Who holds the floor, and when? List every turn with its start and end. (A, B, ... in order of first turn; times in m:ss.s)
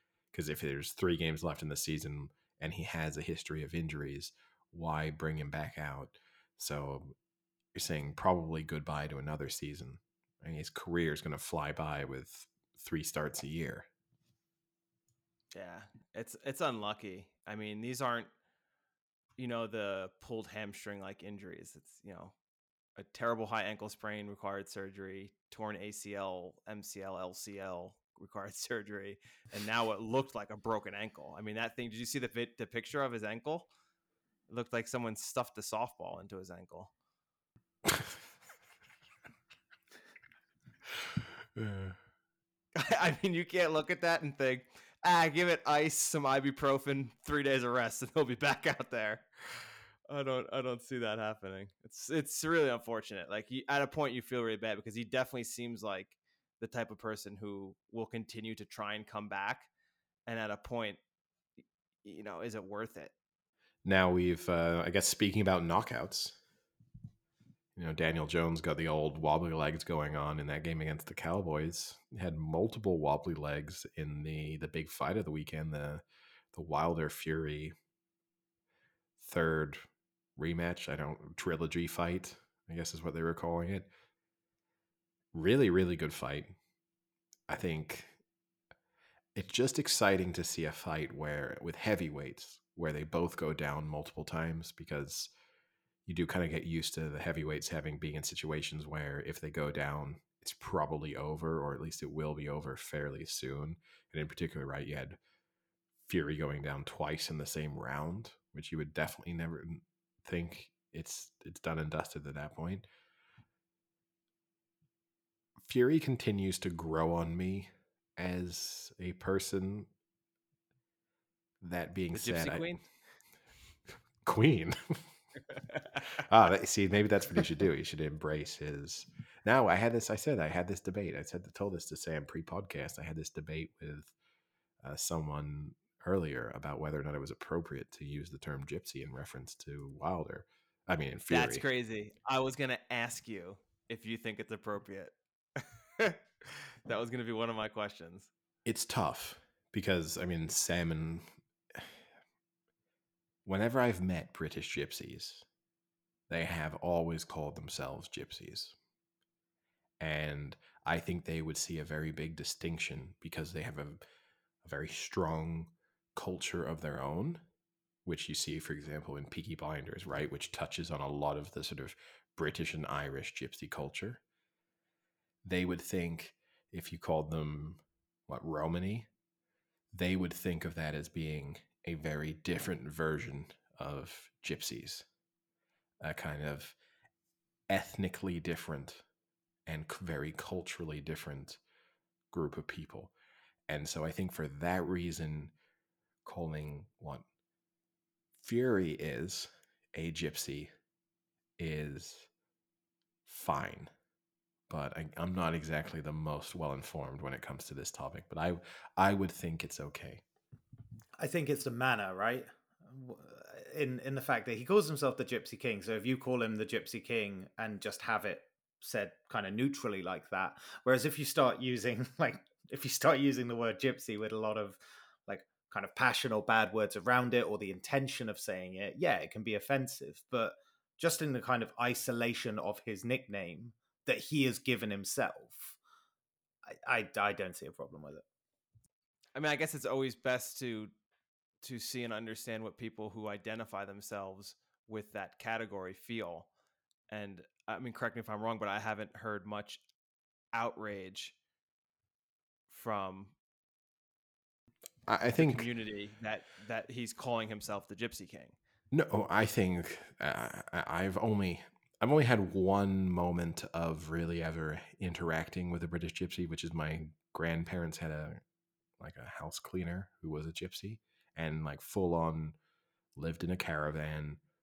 0:00.3-0:07.2 A
0:07.7-0:13.9 A
0:15.5-0:18.3 B
0:19.4-0:22.3 B
0:23.0-0:33.7 B
0:34.5-0:36.9 B
0:41.6-0:42.0 A
0:42.8-0:49.3 B
0:50.1-0:59.7 B
1:00.3-1:01.0 B
1:02.0-1:03.1 B
1:03.8-1:06.4 A
1:07.8-1:17.8 A
1:19.2-1:23.9 A
1:25.3-1:26.6 A
1:27.5-1:28.2 A
1:29.4-1:35.3 A
1:36.1-1:45.2 A
1:46.1-1:52.8 A
1:55.6-1:59.9 A
2:01.6-2:02.7 A
2:02.1-2:02.8 B
2:04.2-2:05.0 A
2:06.1-2:14.1 A
2:14.8-2:21.6 A
2:21.3-2:28.3 B
2:28.6-2:31.9 A
2:33.4-2:35.4 A
2:36.3-2:38.8 A
2:40.0-2:44.0 A
2:44.6-2:47.4 A
2:48.0-2:54.2 A
2:55.4-2:59.1 A
2:59.9-3:05.1 A
3:06.0-3:06.8 A
3:07.7-3:09.0 A
3:09.7-3:11.6 A
3:12.3-3:13.1 A
3:13.7-3:15.5 A
3:16.2-3:17.2 A
3:18.4-3:20.7 A
3:21.6-3:22.3 A
3:23.3-3:23.9 A
3:24.7-3:30.2 A
3:31.2-3:55.8 C
3:56.7-3:58.2 C
3:59.4-4:00.9 B
4:01.6-4:06.5 B
4:07.1-4:09.8 B
4:10.5-4:11.4 B
4:12.7-4:13.3 B
4:15.1-4:15.7 A
4:15.4-4:18.6 B
4:18.9-4:28.4 A
4:29.0-4:32.6 A
4:33.2-4:34.4 A